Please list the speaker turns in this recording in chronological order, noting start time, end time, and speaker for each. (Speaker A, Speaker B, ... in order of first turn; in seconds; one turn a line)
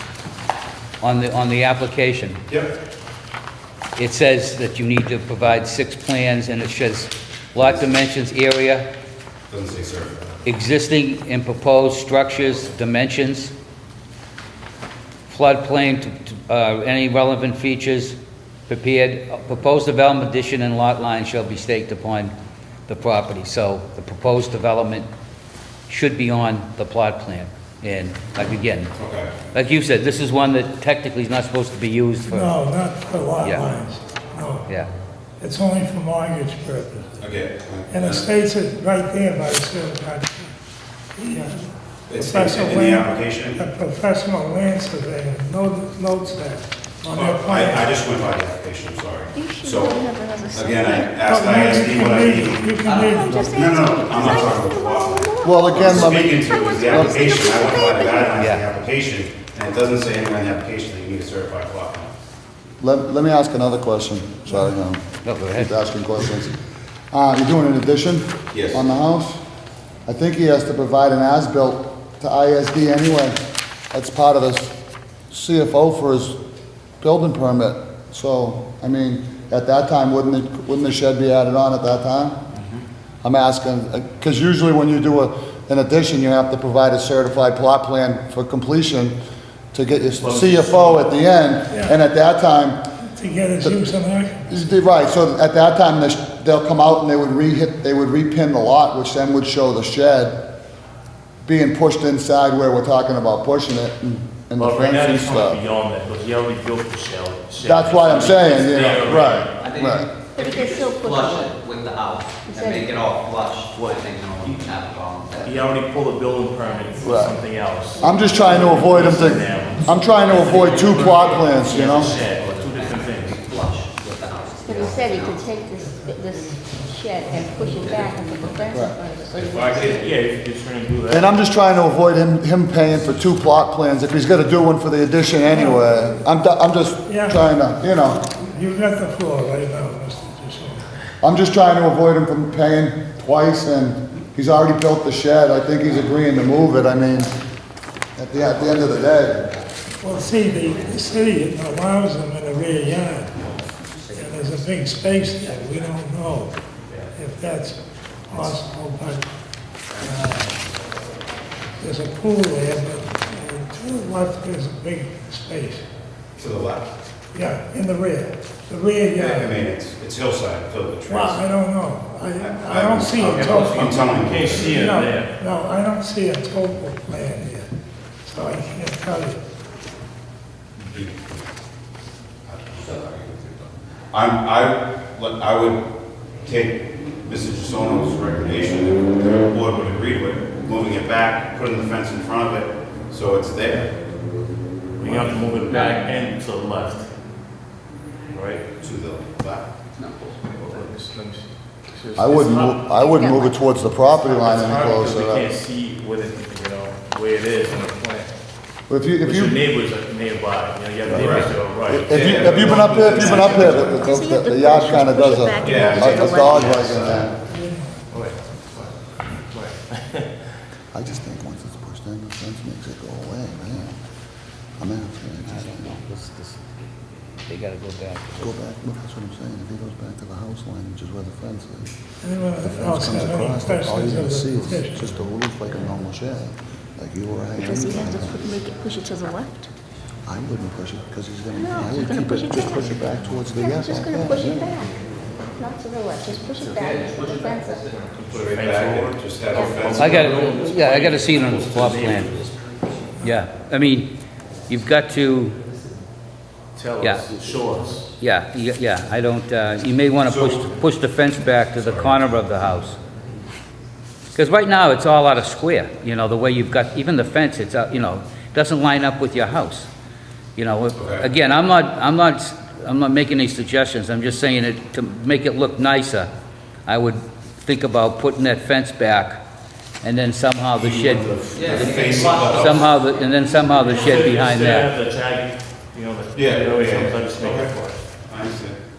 Speaker A: 1.0-2.4
Speaker A: 4.0-8.9
Speaker B: 9.5-10.3
Speaker A: 10.4-13.5
Speaker A: 15.3-22.3
Speaker A: 22.9-25.1
Speaker A: 25.9-28.9
Speaker B: 28.9-29.3
Speaker A: 29.5-32.6
Speaker C: 32.3-34.7
Speaker A: 33.4-33.7
Speaker C: 35.4-37.1
Speaker B: 37.2-38.3
Speaker C: 37.9-40.5
Speaker C: 41.2-47.9
Speaker B: 42.1-43.6
Speaker B: 47.1-52.8
Speaker D: 49.4-51.2
Speaker C: 51.2-53.4
Speaker E: 52.8-53.6
Speaker D: 52.9-58.5
Speaker B: 53.5-62.1
Speaker F: 55.4-57.2
Speaker A: 58.4-58.6
Speaker F: 62.8-66.6
Speaker A: 65.2-65.8
Speaker F: 67.1-69.4
Speaker B: 68.5-68.8
Speaker F: 70.1-73.4
Speaker F: 73.9-74.8
Speaker F: 75.3-76.4
Speaker F: 77.0-82.4
Speaker G: 82.6-82.8
Speaker F: 83.2-89.2
Speaker F: 89.7-92.9
Speaker G: 90.2-91.2
Speaker C: 91.7-92.0
Speaker C: 93.0-94.6
Speaker F: 94.5-100.5
Speaker F: 101.4-105.6
Speaker G: 104.6-109.6
Speaker F: 107.6-110.1
Speaker E: 108.8-115.7
Speaker D: 110.3-111.6
Speaker D: 112.5-113.0
Speaker G: 113.7-114.7
Speaker G: 115.4-123.5
Speaker D: 116.6-117.2
Speaker F: 117.0-117.4
Speaker D: 118.0-119.4
Speaker F: 118.0-122.2
Speaker E: 120.2-125.4
Speaker D: 124.7-130.1
Speaker C: 125.9-126.7
Speaker C: 127.5-128.0
Speaker F: 128.7-129.0
Speaker B: 129.3-130.0
Speaker G: 129.9-131.4
Speaker F: 131.1-138.2
Speaker C: 135.5-135.8
Speaker C: 137.1-137.4
Speaker C: 138.4-140.9
Speaker F: 141.2-147.3
Speaker F: 148.2-149.4
Speaker E: 148.4-149.2
Speaker C: 150.0-153.3
Speaker E: 150.1-151.3
Speaker E: 153.9-154.2
Speaker C: 154.1-156.5
Speaker C: 157.2-157.8
Speaker C: 158.3-159.3
Speaker C: 160.0-160.6
Speaker C: 161.8-165.8
Speaker B: 166.4-166.9
Speaker C: 167.3-169.5
Speaker B: 169.2-171.4
Speaker C: 171.1-174.1
Speaker B: 172.4-174.8
Speaker G: 173.2-175.3
Speaker C: 174.7-177.7
Speaker C: 178.3-179.4
Speaker B: 180.8-181.4
Speaker B: 182.5-183.5
Speaker B: 184.1-185.8
Speaker B: 186.4-193.9
Speaker G: 195.0-197.1
Speaker E: 195.2-196.0
Speaker G: 198.3-198.7
Speaker B: 198.8-199.7
Speaker E: 200.0-200.9
Speaker G: 200.5-202.9
Speaker F: 202.2-205.5
Speaker D: 203.0-203.6
Speaker G: 204.1-208.3
Speaker F: 208.9-209.6
Speaker G: 209.2-214.0
Speaker B: 211.1-214.1
Speaker F: 211.1-217.3
Speaker D: 214.0-216.8
Speaker B: 215.6-217.3
Speaker C: 217.5-217.9
Speaker G: 218.1-220.3
Speaker F: 220.9-224.0
Speaker F: 224.8-225.9
Speaker A: 225.5-226.6
Speaker A: 227.5-228.5
Speaker F: 228.4-231.9
Speaker C: 232.2-235.1
Speaker F: 232.6-238.4
Speaker D: 237.6-239.7
Speaker F: 240.3-244.8
Speaker D: 241.5-244.9
Speaker D: 245.5-248.0
Speaker G: 246.6-246.9
Speaker E: 246.8-247.9
Speaker G: 247.5-252.4
Speaker B: 248.3-250.3
Speaker A: 250.0-252.4
Speaker E: 252.0-253.0
Speaker A: 253.2-254.2
Speaker A: 254.7-255.6
Speaker G: 256.8-258.1
Speaker A: 257.0-257.3
Speaker A: 258.2-263.0
Speaker B: 260.2-260.7
Speaker B: 261.8-262.4
Speaker A: 264.4-269.9
Speaker A: 270.6-276.3
Speaker B: 271.0-271.3
Speaker A: 276.9-279.4
Speaker A: 280.0-284.9
Speaker B: 280.8-282.9
Speaker E: 281.6-284.2
Speaker G: 283.9-288.0
Speaker B: 286.4-287.7
Speaker B: 288.3-288.8